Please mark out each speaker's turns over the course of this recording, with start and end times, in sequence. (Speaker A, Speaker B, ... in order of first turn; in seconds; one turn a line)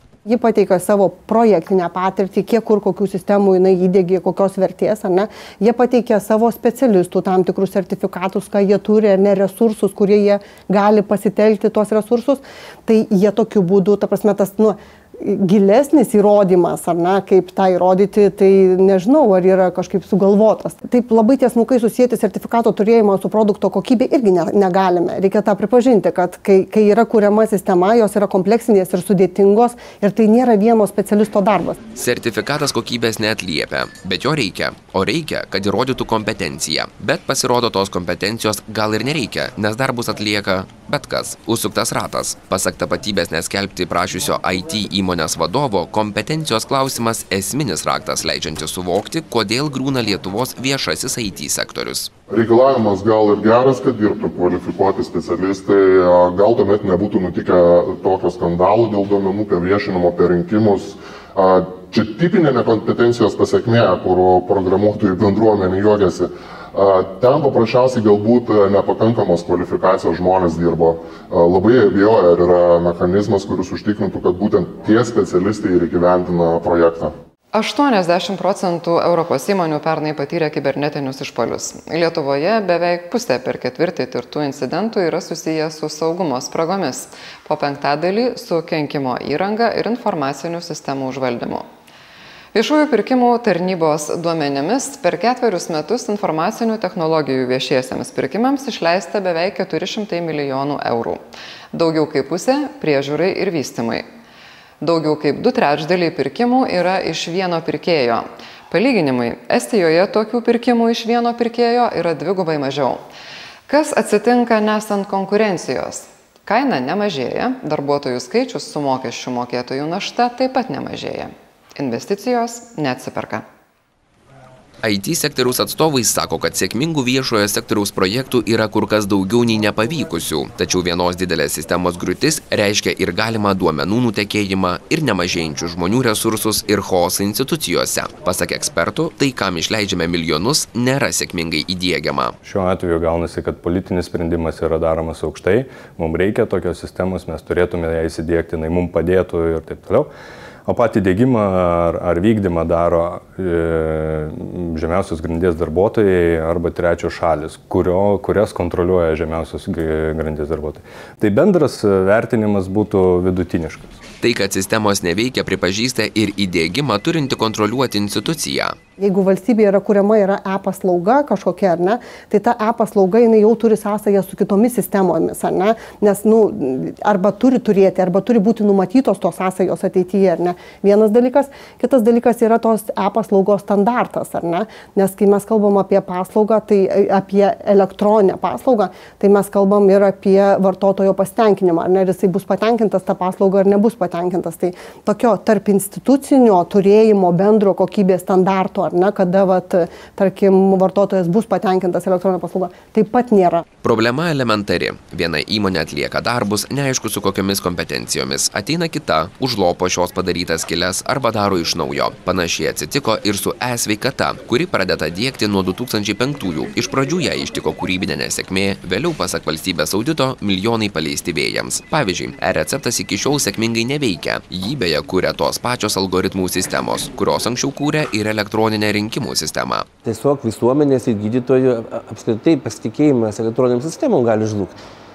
Speaker A: 0.2-31.8
Speaker B: 31.9-52.1
Speaker C: 52.3-77.2
Speaker D: 77.5-91.7
Speaker D: 92.5-104.0
Speaker D: 104.8-113.0
Speaker D: 113.7-123.4
Speaker B: 124.8-142.3
Speaker E: 142.4-150.1
Speaker E: 150.7-164.0
Speaker B: 164.2-168.7
Speaker A: 169.0-203.6
Speaker B: 203.8-229.8
Speaker F: 230.0-234.7